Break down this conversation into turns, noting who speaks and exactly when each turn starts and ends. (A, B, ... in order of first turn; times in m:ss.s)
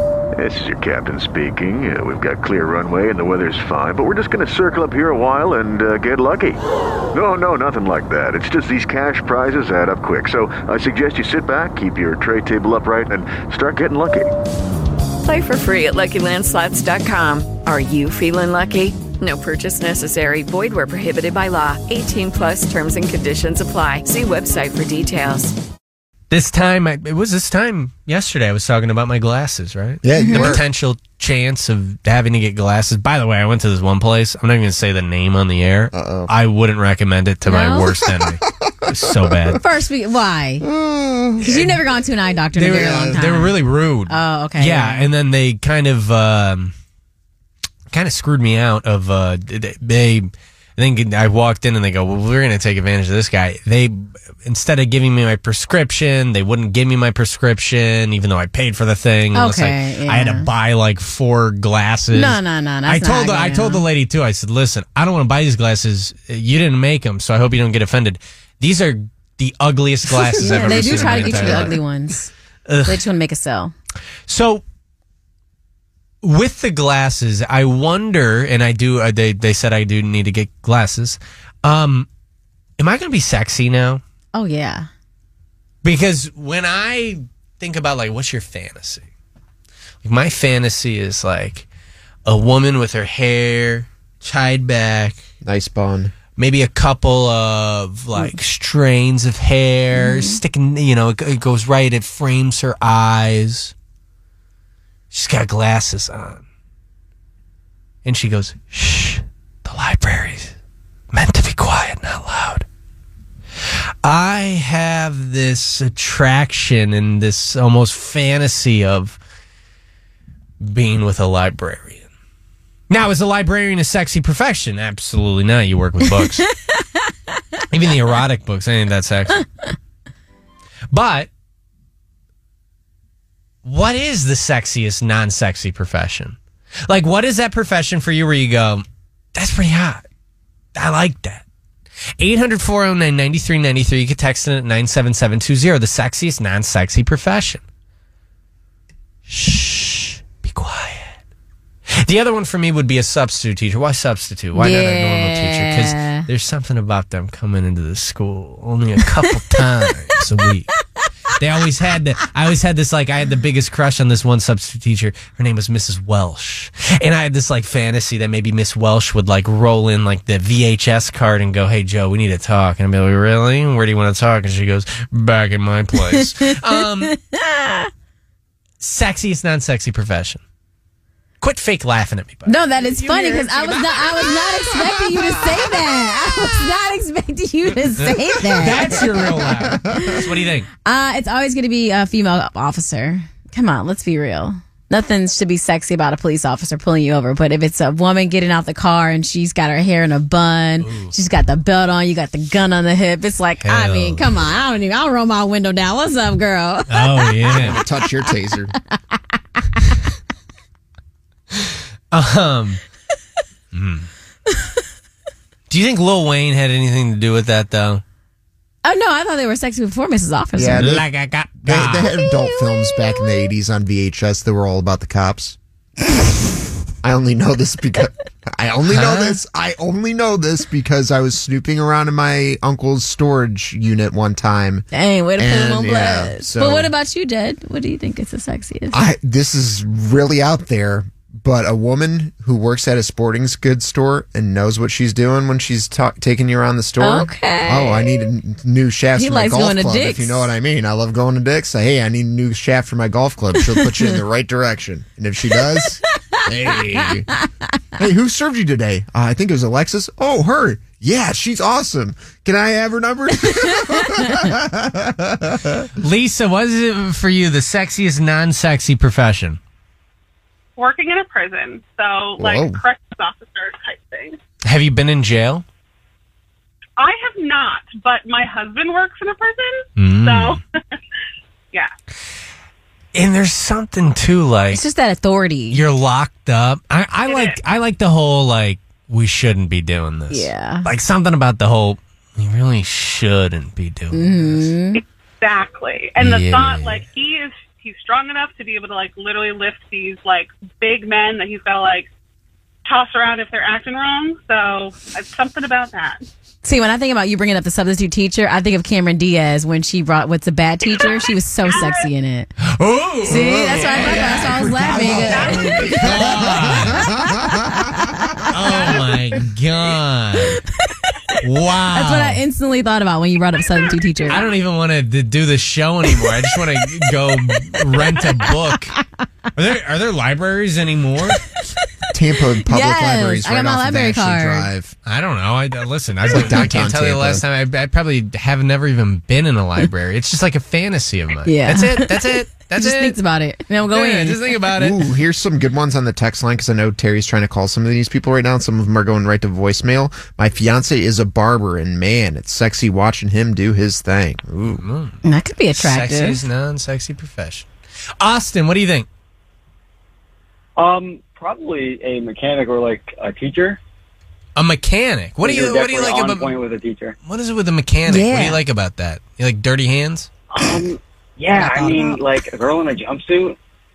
0:00.4-0:06.6 A
0:07.1-0:14.3 A
0:15.2-0:25.5 B
0:26.3-0:39.6 C
0:30.0-0:30.6 D
0:30.2-0:30.5 E
0:35.9-0:36.3 D
0:37.4-0:37.9 E
0:38.1-0:39.6 D
0:39.6-0:40.6 E
0:40.6-0:41.7 D
0:41.4-0:43.6 E
0:41.4-0:41.8 C
0:42.5-0:46.7 C
0:42.6-0:43.2 D
0:44.1-0:45.1 E
0:47.9-1:11.8 C
0:59.3-1:00.5 E
1:02.1-1:03.8 E
1:10.4-1:12.3 E
1:10.5-1:11.7 D
1:12.6-1:13.0 C
1:12.8-1:13.7 E
1:14.3-1:14.6 C
1:16.2-1:22.1 C
1:22.8-1:24.0 C
1:24.3-1:24.8 E
1:25.8-1:29.1 C
1:30.0-1:31.7 C
1:32.2-1:35.2 C
1:35.4-1:36.1 D
1:36.4-1:43.7 C
1:40.0-1:40.4 E
1:45.1-1:46.4 C
1:48.0-1:50.6 C
1:51.1-1:52.6 C
1:54.0-1:59.2 C
2:00.6-2:02.1 C
2:02.9-2:06.5 C
2:07.7-2:09.4 C
2:10.9-2:11.3 C
2:13.6-2:20.0 C
2:20.7-2:21.4 C
2:22.2-2:27.6 C
2:29.3-2:31.2 C
2:32.0-2:40.8 C
2:34.5-2:36.2 E
2:41.3-2:57.1 C
2:57.0-2:57.9 E
2:58.8-3:00.4 C
3:01.4-3:04.9 C
3:02.5-3:09.1 E
3:08.0-3:10.7 C
3:09.3-3:10.2 D
3:10.8-3:27.7 E
3:20.8-3:21.1 C
3:23.6-3:24.5 C
3:26.9-3:27.8 C
3:27.5-3:28.8 D
3:32.1-3:32.8 C
3:33.7-3:34.1 C
3:34.4-3:34.8 E
3:35.7-3:38.0 C
3:38.8-3:41.0 E
3:40.6-3:41.0 D
3:40.8-3:42.2 C
3:41.6-3:45.6 D
3:42.3-3:43.3 E
3:47.0-3:54.8 D
3:48.9-3:49.4 C
3:54.9-3:59.0 E
3:55.4-3:56.9 D
3:58.9-4:17.3 D
4:07.0-4:08.3 E
4:09.1-4:10.5 E
4:15.9-4:17.5 E
4:18.0-4:25.8 D
4:26.0-4:29.6 C
4:30.8-4:34.4 F
4:32.4-4:32.8 D
4:34.6-4:35.6 C
4:37.0-4:41.0 F
4:40.0-4:40.6 C
4:43.1-4:44.8 C
4:44.7-4:45.8 E
4:45.7-4:54.7 C
4:47.2-4:47.6 F
4:50.3-4:50.9 E
4:54.1-4:55.0 E
4:54.9-5:02.1 F
4:56.2-4:57.0 C
5:02.8-5:06.2 F
5:06.6-5:12.5 E
5:11.0-5:12.1 F
5:12.6-5:15.2 C
5:13.2-5:15.8 E
5:13.3-5:18.6 D
5:14.7-5:16.7 F
5:15.8-5:17.1 C
5:17.0-5:19.0 E
5:18.5-5:20.6 C
5:21.4-5:22.4 C
5:21.9-5:24.4 E
5:24.3-5:28.9 C
5:29.5-5:31.4 C
5:32.1-5:34.9 D
5:32.6-5:34.7 E
5:35.0-5:43.2 C
5:36.3-5:37.4 D
5:41.4-5:44.6 E
5:43.9-5:45.0 C
5:44.8-5:54.8 D
5:54.8-5:55.2 C
5:55.2-5:56.4 E
5:55.7-5:57.7 C
5:58.2-5:59.1 C
6:00.8-6:03.8 G
6:04.6-6:06.6 C
6:05.4-6:07.2 G
6:07.2-6:10.3 C
6:08.0-6:08.6 E
6:10.5-6:13.6 G